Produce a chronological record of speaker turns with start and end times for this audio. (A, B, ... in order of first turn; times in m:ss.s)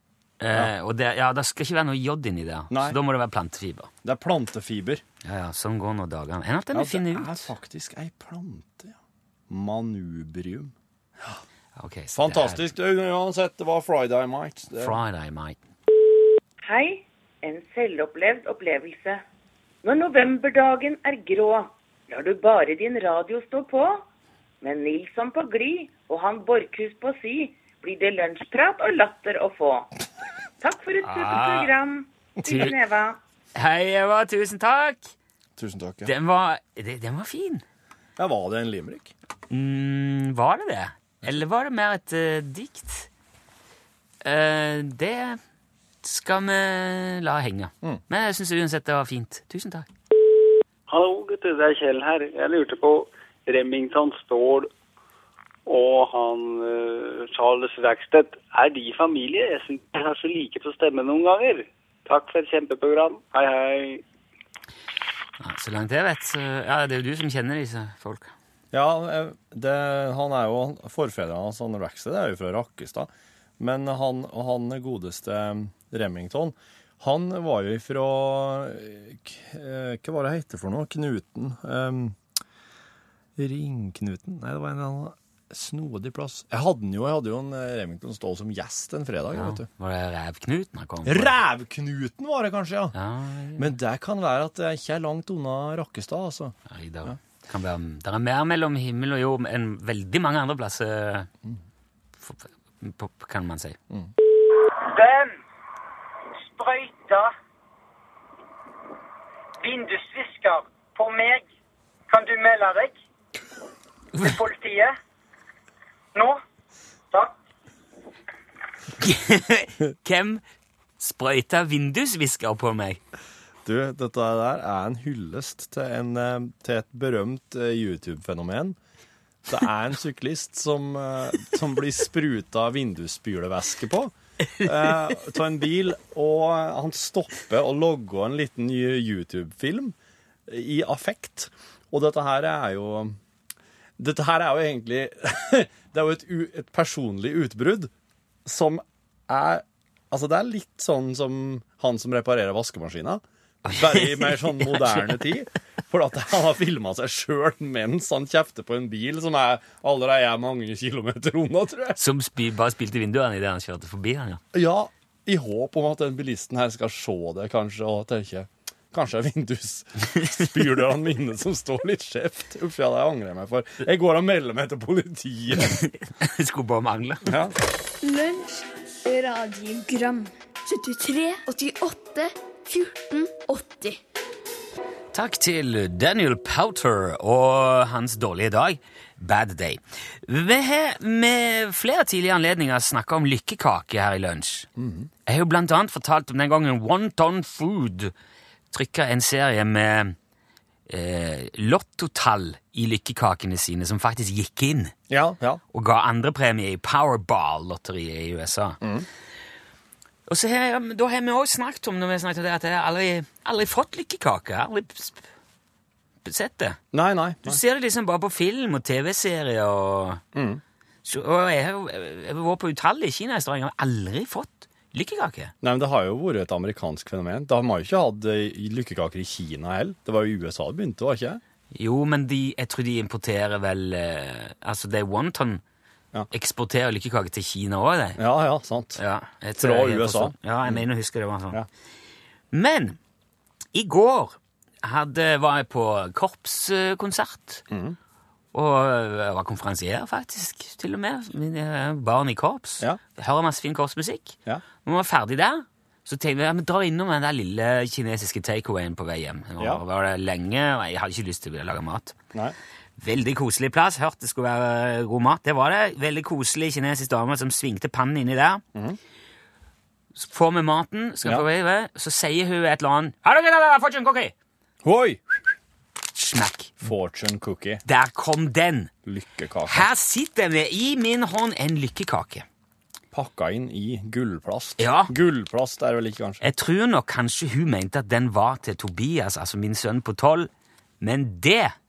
0:00.4-0:03.9 A
0:02.7-0:03.0 B
0:04.0-0:05.0 B
0:05.2-0:07.5 A
0:06.7-0:09.0 B
0:09.5-0:11.4 B
0:11.8-0:12.6 A
0:12.1-0:15.0 B
0:14.8-0:15.6 A
0:16.6-0:19.2 C
0:19.8-0:24.0 C
0:24.6-0:29.9 C
0:30.6-0:33.2 C
0:31.0-0:31.7 A
0:32.4-0:32.7 A
0:33.6-0:35.1 A
0:35.6-0:36.1 B
0:36.0-0:37.6 A
0:38.2-0:39.1 B
0:39.5-0:43.1 A
0:44.2-0:45.4 A
0:46.0-0:49.9 A
0:50.9-0:54.7 D
0:55.7-1:04.0 D
1:05.4-1:08.3 A
1:08.7-1:22.2 B
1:23.4-1:29.7 B
1:29.3-1:31.4 A
1:31.0-1:32.9 B
1:32.9-1:33.7 A
1:33.6-1:37.2 B
1:36.7-1:41.3 A
1:42.2-1:43.8 A
1:44.6-1:45.4 E
1:46.5-1:47.3 E
1:49.6-1:51.4 E
1:52.1-1:52.9 E
1:54.2-1:54.9 E
1:56.1-1:56.4 E
1:59.0-2:00.4 A
2:01.0-2:03.0 A
2:03.6-2:08.8 B
2:09.5-2:19.9 B
2:20.5-2:23.2 B
2:24.0-2:27.9 B
2:28.4-2:42.0 B
2:33.6-2:35.2 A
2:42.0-2:44.4 A
2:44.5-2:55.8 B
2:55.6-2:57.3 A
2:57.2-2:57.6 B
2:58.0-3:04.0 F
3:05.1-3:14.7 A
3:14.8-3:15.1 B
3:15.3-3:18.1 A
3:18.7-3:20.2 A
3:20.9-3:24.9 A
3:25.1-3:25.6 B
3:25.7-3:28.8 A
3:28.8-3:29.1 B
3:30.3-3:35.2 A
3:36.2-3:36.8 A
3:36.9-3:37.6 B
3:37.4-3:40.2 A
3:40.3-3:40.6 B
3:41.0-3:45.5 A
3:45.6-3:51.4 B
3:51.7-3:55.6 A
3:56.3-3:58.2 A
3:58.2-3:59.0 B
3:59.0-4:01.6 A
3:59.6-4:00.8 B
4:02.5-4:03.0 A
4:03.7-4:07.6 A
4:07.7-4:08.0 B
4:08.5-4:22.2 A
4:23.0-4:28.6 A
4:30.1-4:34.3 A
4:34.8-4:35.4 B
4:36.1-4:36.8 A
4:36.8-4:37.8 B
4:37.8-4:38.9 A
4:39.1-4:39.9 B
4:39.6-4:42.4 A
4:43.1-4:46.4 B
4:44.8-4:45.1 A
4:46.4-4:50.5 A
4:51.0-4:51.8 A